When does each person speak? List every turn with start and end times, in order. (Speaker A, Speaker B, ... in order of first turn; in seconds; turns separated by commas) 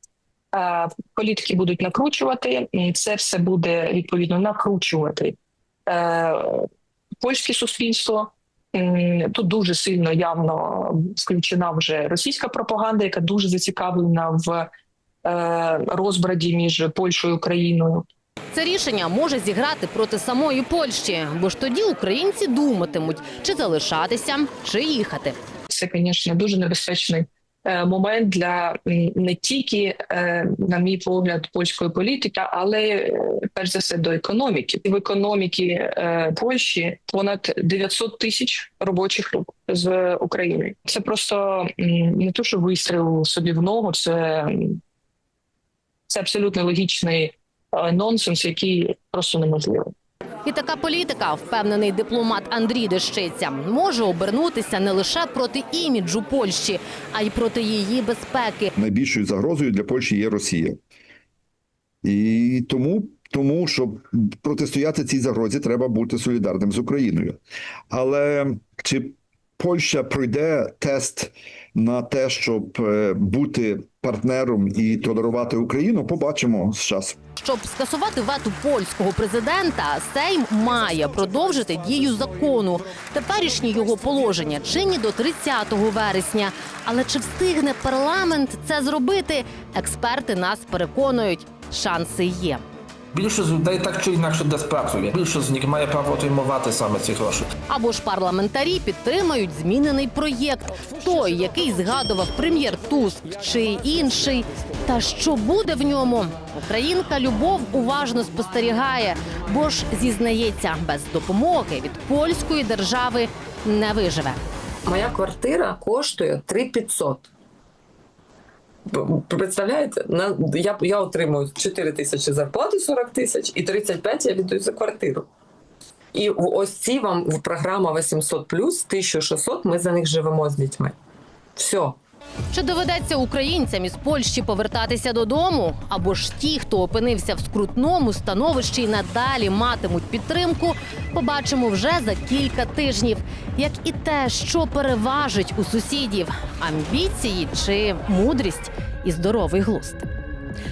Speaker A: 0.5-6.7, Speaker A: 7.2-14.7, Speaker A: 15.2-18.1, Speaker B: 18.5-25.4, Speaker A: 25.7-44.8, Speaker A: 46.1-49.9, Speaker B: 50.4-58.7, Speaker C: 58.8-60.8, Speaker C: 62.0-67.4, Speaker C: 67.9-77.2, Speaker B: 77.4-92.6, Speaker D: 93.1-97.5, Speaker B: 97.7-114.4, Speaker E: 114.9-117.3, Speaker E: 118.9-125.3, Speaker E: 126.1-130.9, Speaker E: 131.6-132.0, Speaker B: 132.5-150.1